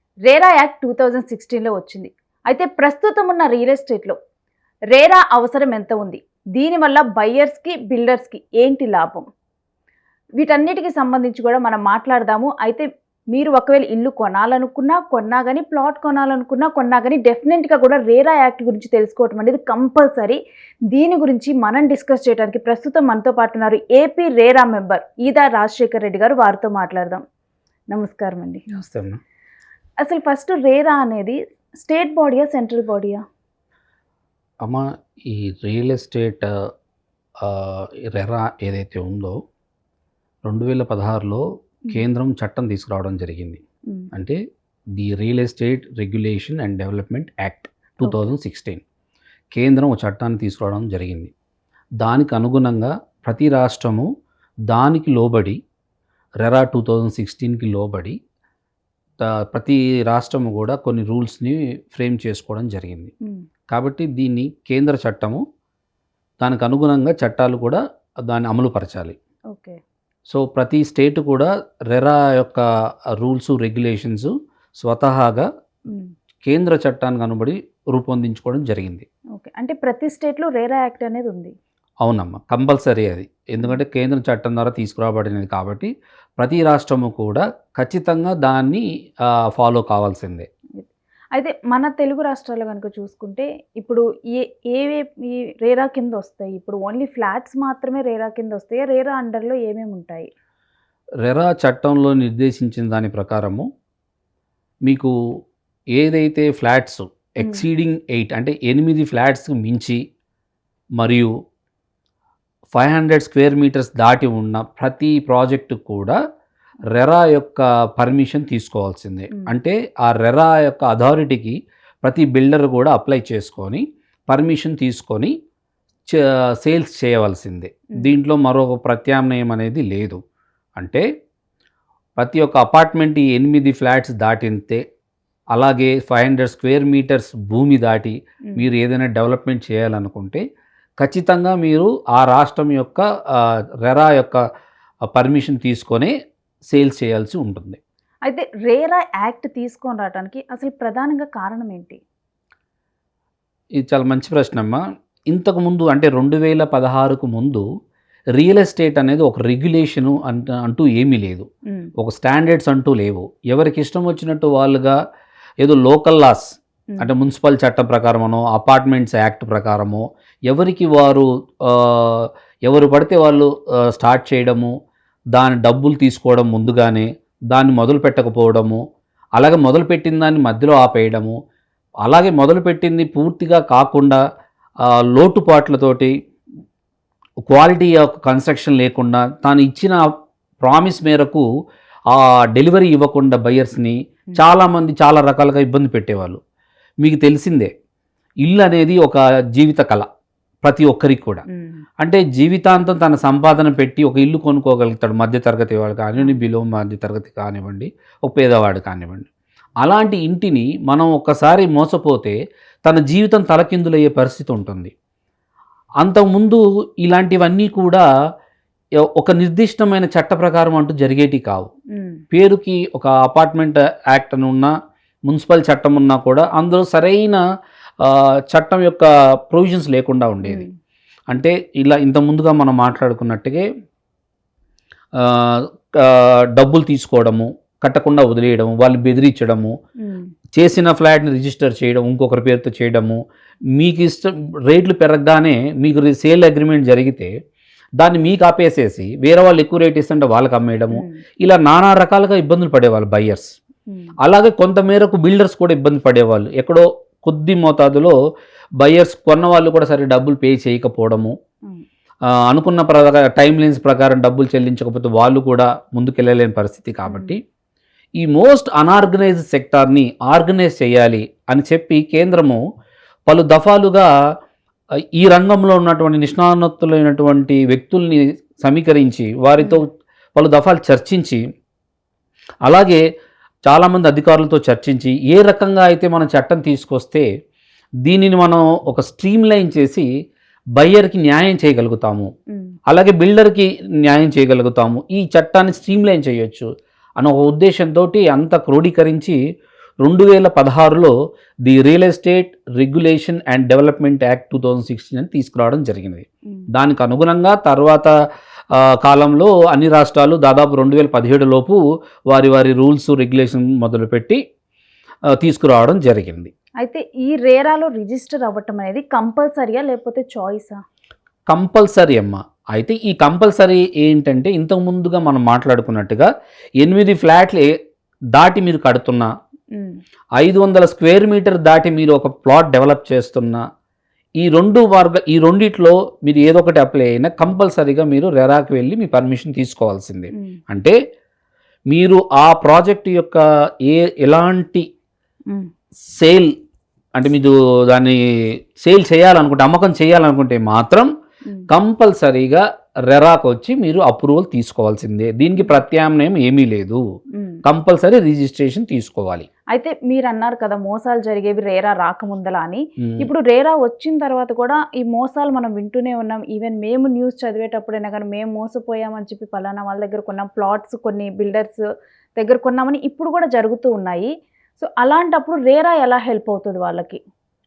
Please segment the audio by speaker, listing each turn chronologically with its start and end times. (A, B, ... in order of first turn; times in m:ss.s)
0:00.3-0:04.2 A
0:04.9-0:09.3 A
0:10.4-0:20.4 A
0:20.9-0:27.2 A
0:27.9-0:28.6 A
0:28.7-0:29.2 B
0:30.0-0:33.2 A
0:34.6-0:36.5 B
0:37.4-0:39.4 B
0:40.5-0:43.6 B
0:44.1-0:44.4 B
0:45.0-0:48.8 B
0:48.0-0:48.3 A
0:49.5-0:51.3 B
0:52.0-0:54.1 B
0:54.7-0:55.6 B
0:56.4-0:58.2 B
0:59.2-1:03.1 B
1:03.7-1:05.4 B
1:06.4-1:09.2 B
1:09.5-1:09.8 A
1:10.3-1:12.7 B
1:13.2-1:15.5 B
1:16.4-1:19.1 B
1:19.4-1:21.5 A
1:22.0-1:28.8 B
1:29.5-1:30.5 B
1:30.8-1:40.3 A
1:41.2-1:43.7 B
1:44.8-1:45.1 B
1:46.0-1:50.0 B
1:51.0-1:51.3 B
1:52.7-1:56.2 B
1:56.9-2:05.3 B
2:06.1-2:10.2 B
2:10.8-2:11.0 B
2:12.2-2:14.8 B
2:15.5-2:20.4 B
2:21.0-2:24.4 B
2:25.1-2:26.1 B
2:26.7-2:27.8 B
2:28.3-2:32.0 A
2:33.8-2:37.6 B
2:38.4-2:41.5 B
2:42.0-2:45.0 B
2:45.6-2:54.7 B
2:55.3-2:58.8 B
2:59.4-3:01.4 B
3:02.0-3:04.2 B
3:04.9-3:06.1 B
3:07.5-3:10.0 B
3:10.6-3:11.5 B
3:12.1-3:16.4 B
3:17.0-3:17.7 B
3:18.4-3:20.1 B
3:20.6-3:21.4 B
3:21.5-3:21.8 A
3:22.0-3:29.3 B
3:29.8-3:34.9 B
3:36.0-3:38.0 B
3:39.2-3:41.7 B
3:42.0-3:42.2 A
3:42.3-3:44.7 B
3:45.3-3:47.4 B
3:48.0-3:50.7 B
3:50.4-3:50.7 A
3:51.3-3:53.6 B
3:55.2-3:59.7 B
4:00.0-4:00.3 A
4:00.6-4:03.2 B
4:03.8-4:07.3 B
4:08.0-4:13.6 B
4:10.9-4:11.2 A
4:13.9-4:14.2 A
4:14.2-4:18.2 B
4:18.8-4:21.4 B
4:22.3-4:27.4 B
4:27.1-4:27.3 A
4:28.2-4:32.6 B
4:33.3-4:34.1 B
4:35.2-4:41.4 B
4:42.6-4:43.0 B
4:43.6-4:47.3 B
4:48.0-4:50.1 B
4:50.8-4:52.3 B
4:52.9-4:56.7 B
4:57.2-4:59.4 B
5:00.0-5:01.1 B
5:01.6-5:08.1 B
5:08.7-5:11.8 B
5:12.3-5:14.4 B
5:15.4-5:16.5 B
5:16.8-5:20.8 A
5:21.5-5:26.3 B
5:26.8-5:27.7 B
5:28.3-5:29.3 B
5:30.4-5:33.6 B
5:34.4-5:41.0 B
5:40.3-5:40.6 A
5:41.9-5:44.9 B
5:46.1-5:46.5 B
5:47.2-5:48.2 B
5:48.8-5:51.1 B
5:51.7-5:57.0 B
5:57.6-5:59.5 B
5:59.7-6:11.8 A
6:03.0-6:03.3 B
6:12.4-6:17.2 A